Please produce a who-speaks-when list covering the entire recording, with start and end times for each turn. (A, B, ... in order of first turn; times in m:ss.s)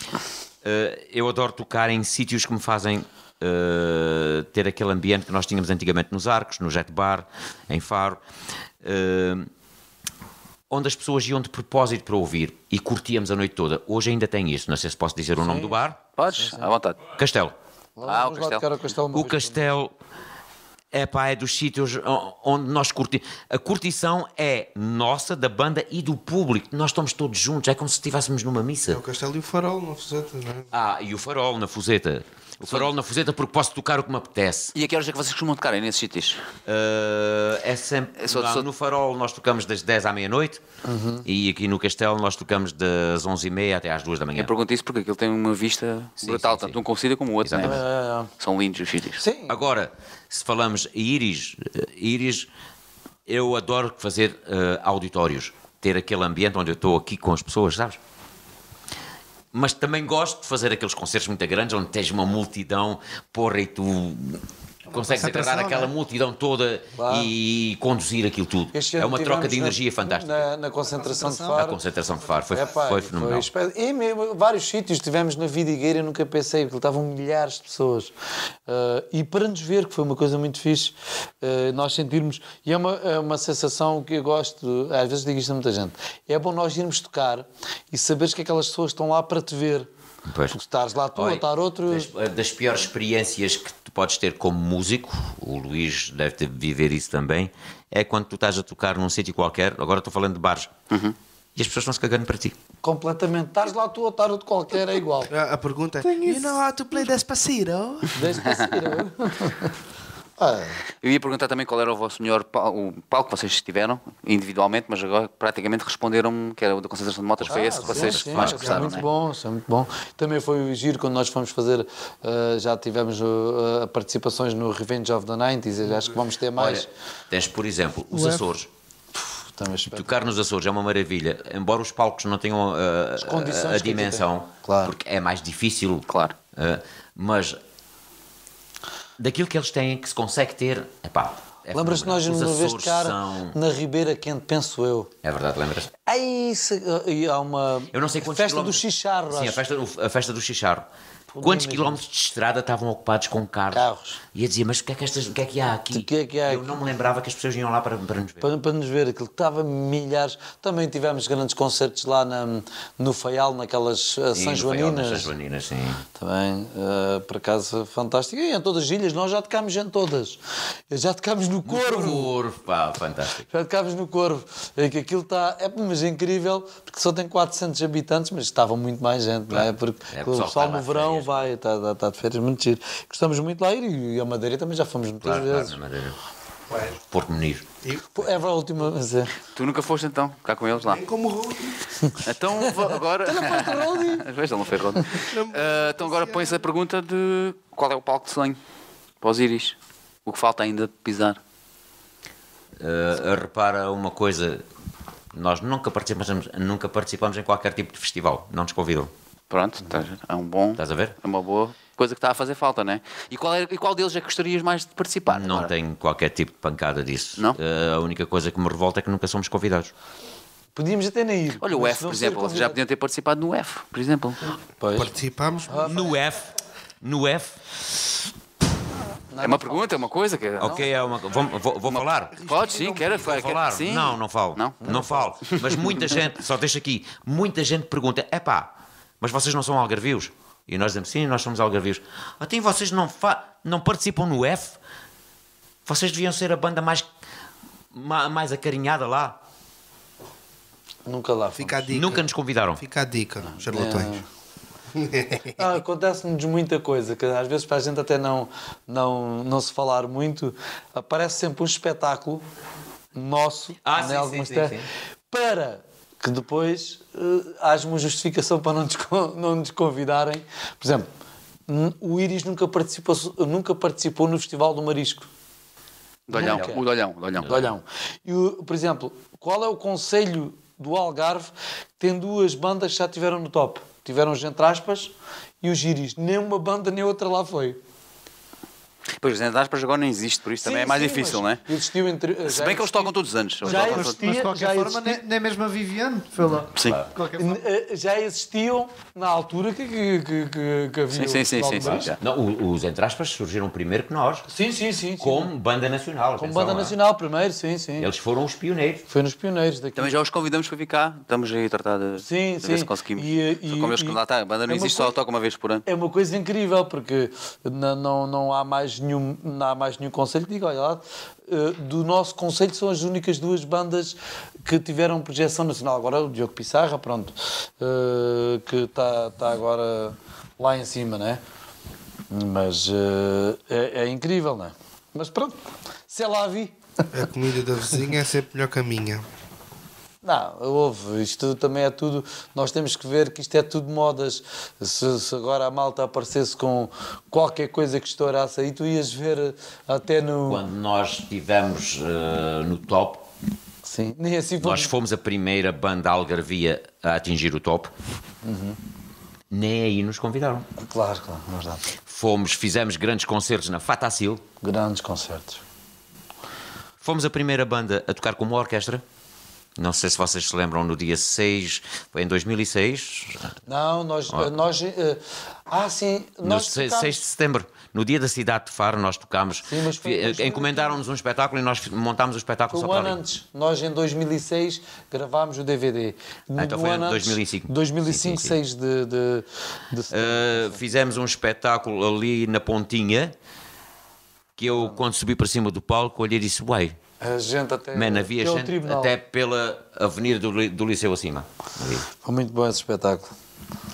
0:00.6-0:08.2 A
0:08.8-0:09.5 A
0:10.7-0:16.0 A
0:15.4-0:15.8 B
0:16.2-0:17.0 C
0:16.3-0:16.7 B
0:17.2-0:17.5 A
0:18.0-0:19.6 B
0:18.0-0:18.6 C
0:19.1-0:19.9 A
0:20.9-0:29.0 A
0:28.9-0:30.7 D
0:30.7-0:34.7 A
0:34.7-0:36.4 C
0:36.6-0:40.6 A
0:38.2-0:38.7 C
0:40.8-0:41.2 B
0:41.2-0:44.5 A
0:44.3-0:47.8 C
0:46.2-0:46.8 A
0:47.4-0:47.8 A
0:47.6-0:48.3 B
0:48.4-0:49.2 C
0:49.2-0:49.6 B
0:49.5-0:52.5 A
0:53.3-0:58.0 A
0:59.5-1:10.5 A
1:04.9-1:05.9 D
1:07.0-1:07.3 B
1:08.7-1:11.8 B
1:11.4-1:13.5 A
1:12.5-1:18.1 B
1:18.7-1:29.9 B
1:30.2-1:30.6 A
1:30.5-1:32.1 B
1:31.1-1:40.7 A
1:40.9-1:41.1 C
1:41.6-1:42.6 A
1:42.8-1:45.3 B
1:45.3-1:48.2 D
1:48.1-1:49.7 B
1:48.3-1:48.7 C
1:50.4-1:50.8 B
1:51.0-1:59.0 C
1:57.4-1:59.0 A
1:57.5-2:06.9 B
2:06.6-2:08.7 A
2:08.1-2:08.4 E
2:09.5-2:10.1 B
2:09.9-2:17.6 A
2:13.2-2:14.9 B
2:16.1-2:16.3 C
2:19.2-2:23.6 A
2:21.7-2:25.1 B
2:25.2-2:25.9 A
2:26.0-2:29.6 B
2:27.9-2:30.9 A
2:31.3-2:32.0 B
2:31.4-2:38.5 A
2:33.7-2:34.2 B
2:35.9-2:36.7 B
2:38.4-2:45.3 B
2:44.3-2:46.0 A
2:46.2-2:52.3 B
2:51.6-2:53.5 A
2:53.5-3:05.8 B
2:59.5-3:01.5 A
3:05.2-3:06.2 A
3:07.0-3:07.7 A
3:08.1-3:09.3 B
3:09.5-3:11.0 C
3:10.8-3:11.7 D
3:12.2-3:18.6 C
3:13.2-3:14.2 B
3:15.3-3:16.6 D
3:19.2-3:21.4 C
3:22.8-3:24.6 A
3:25.3-3:29.1 A
3:29.5-3:35.7 C
3:30.8-3:31.2 A
3:35.3-3:39.9 A
3:40.7-3:42.8 B
3:41.6-3:44.5 C
3:44.8-3:45.1 B
3:44.9-3:45.9 D
3:45.7-3:46.1 B
3:45.8-3:47.6 A
3:49.3-3:50.0 B
3:49.4-3:50.8 C
3:50.6-3:52.4 A
3:50.6-3:50.9 B
3:52.3-3:53.3 D
3:52.4-3:54.8 C
3:53.2-4:04.8 A
3:54.8-3:55.3 B
3:55.5-3:56.0 C
4:05.8-4:07.1 A
4:07.9-4:09.4 A
4:11.0-4:12.0 B
4:11.6-4:12.2 D
4:11.9-4:12.8 A
4:12.8-4:14.2 D
4:13.6-4:14.2 B
4:15.0-4:15.6 D
4:15.6-4:22.4 B
4:23.1-4:31.1 B
4:23.8-4:24.9 A
4:31.7-4:35.3 B
4:36.3-4:37.7 C
4:36.3-4:36.8 B
4:36.3-4:36.7 A
4:37.4-4:47.8 B
4:49.2-4:51.6 C
4:50.6-4:55.2 B
4:52.4-4:54.2 C
4:53.6-4:57.6 E
4:56.7-4:57.0 C
4:56.7-4:57.1 A
4:57.4-5:02.1 B
5:01.1-5:02.2 C
5:01.8-5:04.5 A
5:04.5-5:05.5 B
5:05.2-5:07.0 A
5:06.4-5:08.1 B
5:08.0-5:09.0 A
5:09.1-5:10.1 B
5:10.0-5:15.8 C
5:12.2-5:15.1 B
5:15.8-5:31.4 B
5:32.3-5:35.5 B
5:36.1-5:36.7 B
5:37.1-5:39.2 D
5:40.2-5:50.6 B
5:50.4-5:53.2 A
5:53.8-5:54.9 B
5:54.6-5:57.9 A
5:58.4-5:58.8 B
5:59.5-6:00.7 A
6:00.8-6:01.8 B
6:02.0-6:04.4 A
6:04.6-6:05.6 B
6:07.0-6:09.0 A
6:09.8-6:13.5 A
6:13.6-6:17.2 B
6:16.4-6:23.2 A
6:19.7-6:21.0 B
6:22.7-6:30.8 B
6:26.6-6:28.6 A
6:30.1-6:33.3 A
6:34.6-6:37.0 A
6:34.7-6:35.0 B
6:37.2-6:39.1 B
6:37.9-6:42.1 A
6:42.2-6:43.3 B